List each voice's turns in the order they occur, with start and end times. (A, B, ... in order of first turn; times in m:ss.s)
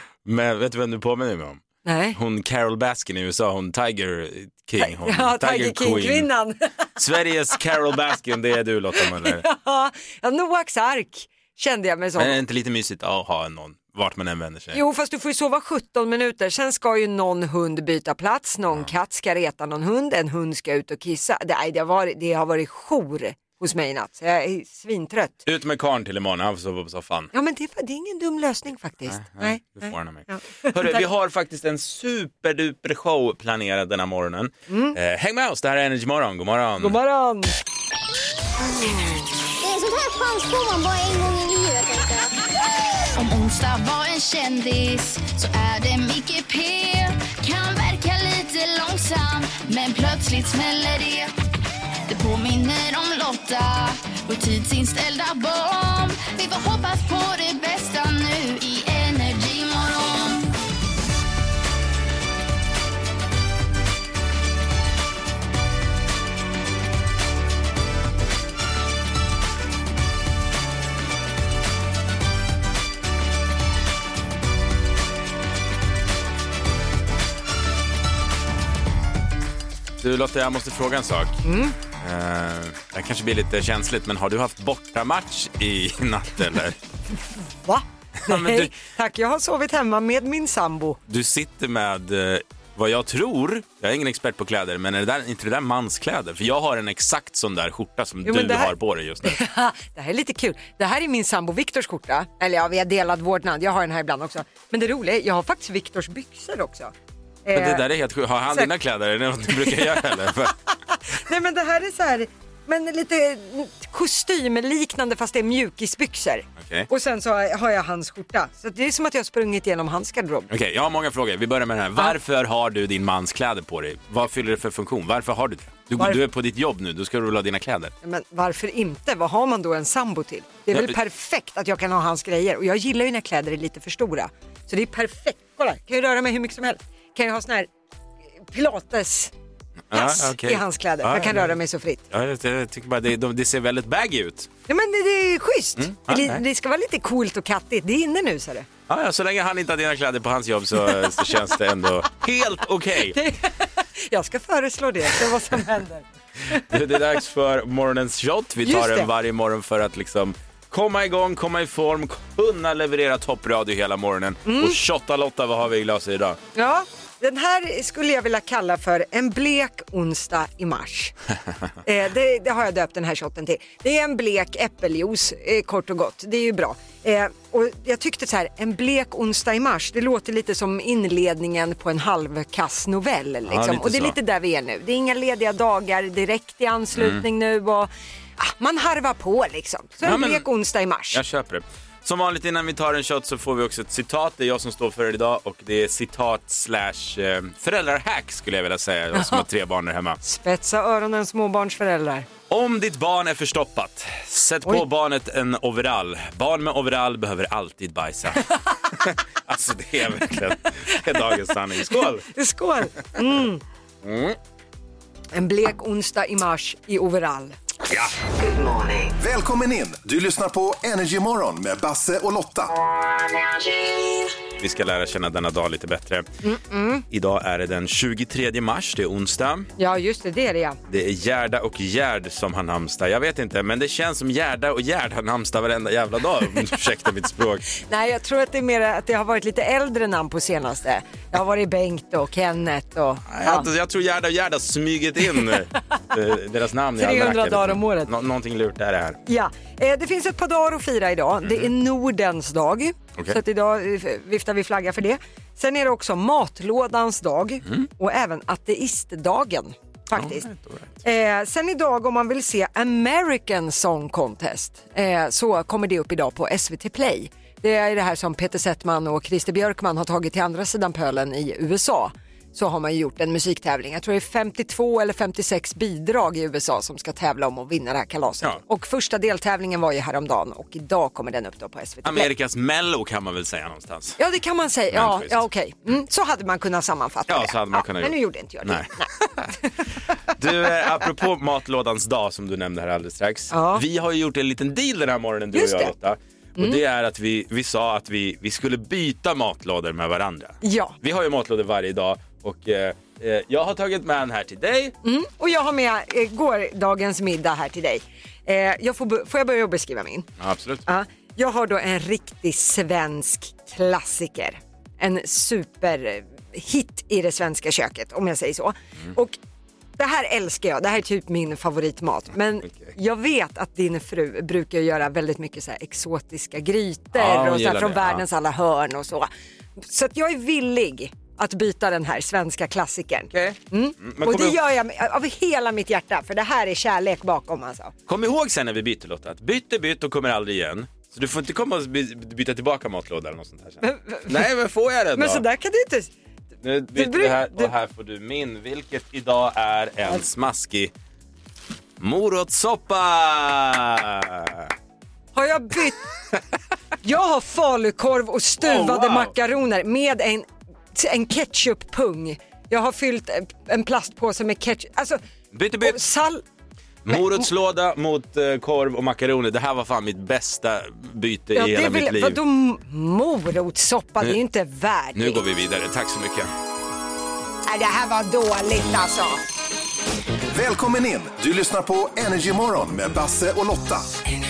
0:00.2-0:01.6 A
0:01.8-0:02.2 B
0:02.2-0:06.3 A
0:04.8-0:06.7 B
0:07.0-0:09.4 A
0:09.0-0:12.4 B
0:12.2-0:14.8 A
0:14.7-0:25.4 B
0:25.4-0:27.3 A
0:27.3-0:31.0 B
0:29.1-0:37.0 A
0:34.7-0:35.0 B
0:36.8-0:37.6 B
0:39.6-0:42.3 C
0:43.1-0:51.3 D
0:52.1-1:00.5 D
1:20.0-1:21.4 A
1:21.4-1:21.8 B
1:22.0-1:26.8 A
1:27.6-1:31.0 B
1:28.2-1:28.7 A
1:31.1-1:39.4 A
1:38.2-1:38.7 B
1:39.2-1:46.9 B
1:47.5-1:47.8 B
1:47.5-1:50.5 A
1:49.6-1:50.2 B
1:50.9-2:00.5 B
1:56.6-1:56.9 A
2:00.5-2:07.9 A
2:08.0-2:17.7 B
2:18.5-2:19.3 B
2:19.9-2:21.6 A
2:19.9-2:22.0 B
2:22.1-2:24.5 A
2:24.7-2:28.7 B
2:25.8-2:26.4 A
2:28.9-2:33.2 A
2:33.1-2:36.7 B
2:36.6-2:46.4 A
2:38.6-2:39.1 B
2:44.4-2:44.8 B
2:46.6-2:51.1 B
2:51.8-3:11.2 B
3:03.5-3:04.2 A
3:07.0-3:07.2 A
3:10.0-3:10.5 A
3:11.1-3:20.2 A
3:19.1-3:19.4 B
3:20.2-3:22.3 B
3:22.5-3:32.3 A
3:31.9-3:33.6 B
3:34.0-3:34.4 A
3:35.3-3:37.6 B
3:39.2-3:42.8 E
3:44.6-3:46.3 A
3:46.4-3:47.0 B
3:47.1-3:49.7 A
3:49.8-3:50.8 B
3:50.9-3:57.6 A
3:57.8-4:03.7 B
4:03.3-4:09.2 A
4:07.0-4:08.1 B
4:09.3-4:20.4 B
4:11.4-4:11.7 A
4:20.1-4:20.9 A
4:21.0-4:42.3 B
4:42.0-4:44.2 A
4:44.2-4:49.8 B
4:44.9-4:45.4 A
4:47.3-4:49.5 A
4:50.4-5:04.9 A
4:53.5-4:53.8 B
4:55.5-4:55.9 B
5:00.6-5:01.0 B
5:05.0-5:10.3 B
5:10.4-5:10.8 A
5:10.9-5:19.4 B
5:20.0-5:37.9 B
5:27.2-5:28.2 A
5:33.3-5:34.6 A
5:38.1-5:45.4 A
5:43.8-5:44.4 B
5:45.2-5:46.1 B
5:46.6-5:50.9 A
5:47.0-5:47.7 B
5:52.0-5:54.7 A
5:55.4-5:56.0 B
5:57.0-6:05.2 B
5:58.6-5:59.3 A
6:05.5-6:06.0 A
6:05.8-6:06.4 B
6:07.0-6:12.4 A
6:07.1-6:07.4 B
6:11.6-6:15.4 B
6:15.2-6:16.5 A
6:17.7-6:19.4 B
6:20.5-6:24.1 E